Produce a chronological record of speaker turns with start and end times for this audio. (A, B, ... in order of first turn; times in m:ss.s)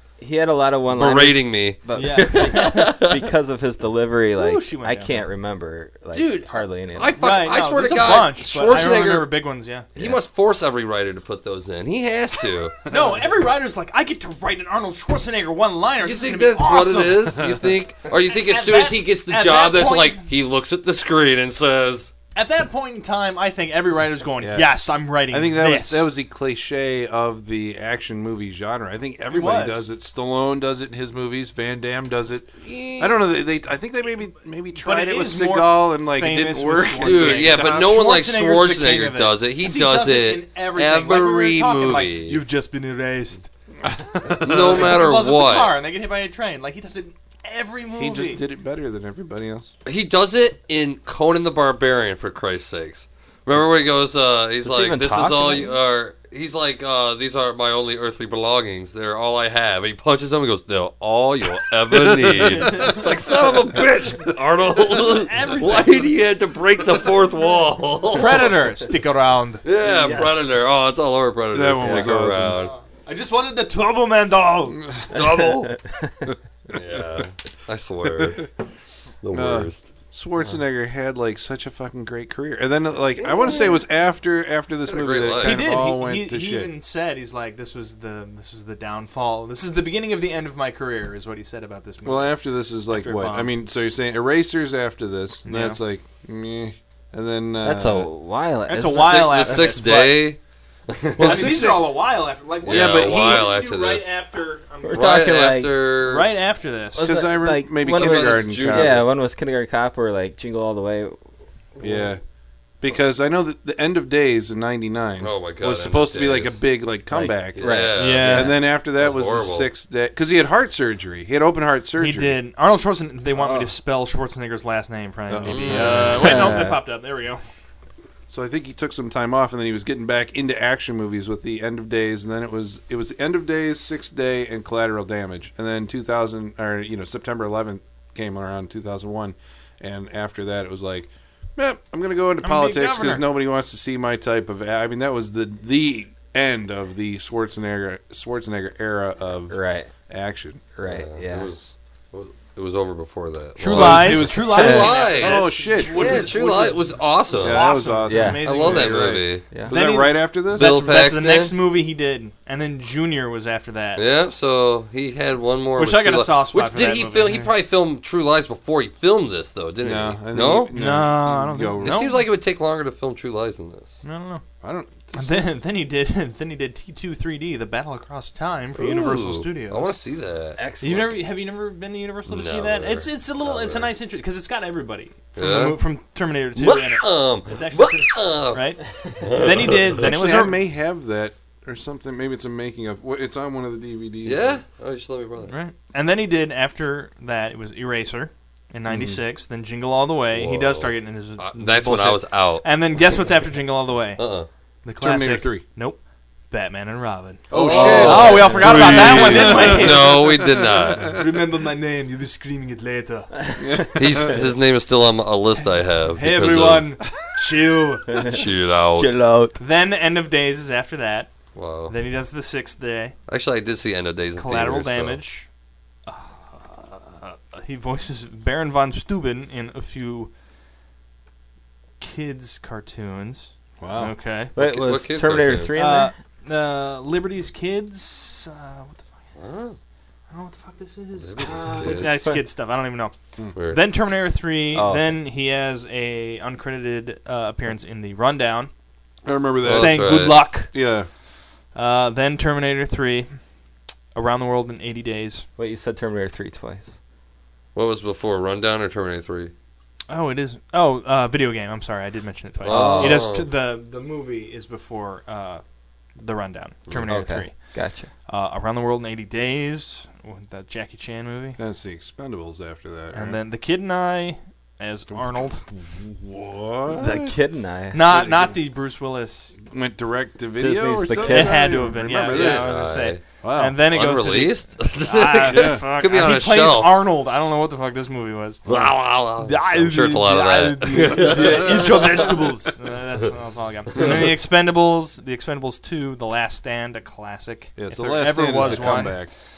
0:00.2-0:07.1 A
0:00.9-0:03.3 B
0:01.9-0:02.9 C
0:04.4-0:05.1 C
0:06.1-0:09.3 B
0:07.2-0:09.9 C
0:09.9-0:12.8 B
0:12.9-0:17.4 C
0:16.0-0:22.1 B
0:18.3-0:20.3 C
0:22.3-0:26.1 C
0:24.4-0:24.8 D
0:25.3-0:37.9 D
0:29.3-0:29.9 C
0:32.6-0:33.2 B
0:34.8-0:43.5 C
0:37.0-0:42.4 B
0:43.8-0:45.0 D
0:44.3-0:48.4 C
0:44.4-0:45.7 B
0:48.0-0:49.7 D
0:49.8-1:08.6 B
0:54.6-0:55.7 A
1:01.9-1:02.8 D
1:02.5-1:03.1 C
1:05.0-1:06.1 C
1:08.1-1:10.2 C
1:09.6-1:12.7 B
1:09.8-1:10.4 A
1:11.5-1:12.6 D
1:11.8-1:12.1 A
1:12.5-1:14.8 C
1:14.7-1:15.2 D
1:15.1-1:15.8 B
1:16.7-1:18.5 B
1:19.2-1:19.9 B
1:19.3-1:26.7 D
1:23.2-1:23.8 B
1:24.9-1:25.6 B
1:25.4-1:32.4 C
1:32.0-1:38.1 D
1:32.9-1:33.5 C
1:35.4-1:35.8 C
1:37.6-1:39.8 A
1:38.7-1:40.2 C
1:38.9-1:41.6 B
1:41.2-1:41.9 D
1:41.2-1:45.2 C
1:42.6-1:44.1 B
1:42.6-1:43.5 D
1:44.8-1:45.7 A
1:44.9-1:46.3 B
1:46.0-1:47.1 C
1:46.9-1:51.2 A
1:47.0-1:49.0 D
1:47.8-1:49.0 B
1:51.8-1:52.2 D
1:52.8-2:02.4 D
1:55.2-1:56.6 B
1:57.1-1:58.6 A
1:57.5-1:59.7 B
1:58.0-1:58.6 C
2:02.0-2:07.4 C
2:03.4-2:03.7 D
2:05.3-2:06.4 D
2:05.4-2:06.5 B
2:05.7-2:06.8 A
2:08.3-2:30.6 D
2:22.4-2:23.2 C
2:29.5-2:29.9 A
2:30.7-2:31.5 A
2:30.8-2:37.7 B
2:33.6-2:44.0 C
2:33.7-2:40.7 D
2:34.6-2:34.9 A
2:38.0-2:38.4 A
2:38.4-2:39.4 B
2:40.5-2:41.5 B
2:44.0-2:50.7 B
2:45.8-2:47.5 C
2:49.8-2:52.0 D
2:50.7-2:52.2 C
2:51.8-2:54.0 B
2:54.0-2:54.4 C
2:54.6-2:55.5 D
2:55.1-2:59.9 C
2:58.7-3:00.6 B
3:00.6-3:01.2 A
3:00.8-3:10.6 C
3:02.3-3:03.9 B
3:05.4-3:05.8 B
3:06.6-3:10.0 B
3:10.0-3:14.6 D
3:14.2-3:15.5 B
3:15.5-3:24.2 C
3:18.9-3:19.2 D
3:20.3-3:22.6 B
3:24.2-3:24.5 B
3:24.8-3:30.2 C
3:25.0-3:25.6 D
3:27.5-3:31.2 B
3:27.5-3:31.2 D
3:28.1-3:28.5 A
3:31.1-3:33.3 C
3:33.4-3:33.8 A
3:33.6-3:34.4 D
3:34.0-3:36.9 B
3:36.1-3:38.1 C
3:38.1-3:39.6 A
3:38.1-3:39.1 B
3:39.6-3:41.3 C
3:41.5-3:41.9 B
3:41.9-3:43.1 C
3:43.3-3:45.2 B
3:44.4-3:45.5 C
3:46.0-3:50.3 C
3:52.0-3:54.5 C
3:53.8-3:54.1 D
3:54.5-3:56.1 A
3:54.6-3:55.7 B
3:55.7-3:59.1 C
3:59.4-3:59.8 B
4:00.3-4:08.7 C
4:01.2-4:02.2 B
4:01.5-4:02.4 A
4:03.5-4:03.9 B
4:04.7-4:05.1 A
4:09.2-4:10.2 D
4:09.6-4:10.5 B
4:09.6-4:10.7 C
4:10.7-4:11.1 D
4:11.7-4:13.4 C
4:14.1-4:15.4 C
4:15.6-4:16.9 A
4:17.7-4:19.5 B
4:20.1-4:25.6 C
4:22.6-4:23.5 B
4:22.7-4:23.2 A
4:26.1-4:31.6 C
4:27.1-4:28.1 A
4:31.6-4:33.4 D
4:33.1-4:35.7 C
4:35.1-4:37.4 D
4:36.9-4:38.0 A
4:37.9-4:39.6 C
4:38.1-4:38.6 D
4:39.6-4:42.7 D
4:40.6-4:41.8 A
4:41.2-4:59.3 C
4:42.2-4:43.2 B
4:43.4-4:43.8 D
4:43.8-4:46.9 B
4:45.5-4:45.8 D
4:48.6-4:52.3 B
4:57.8-4:59.3 D
4:58.7-4:59.2 A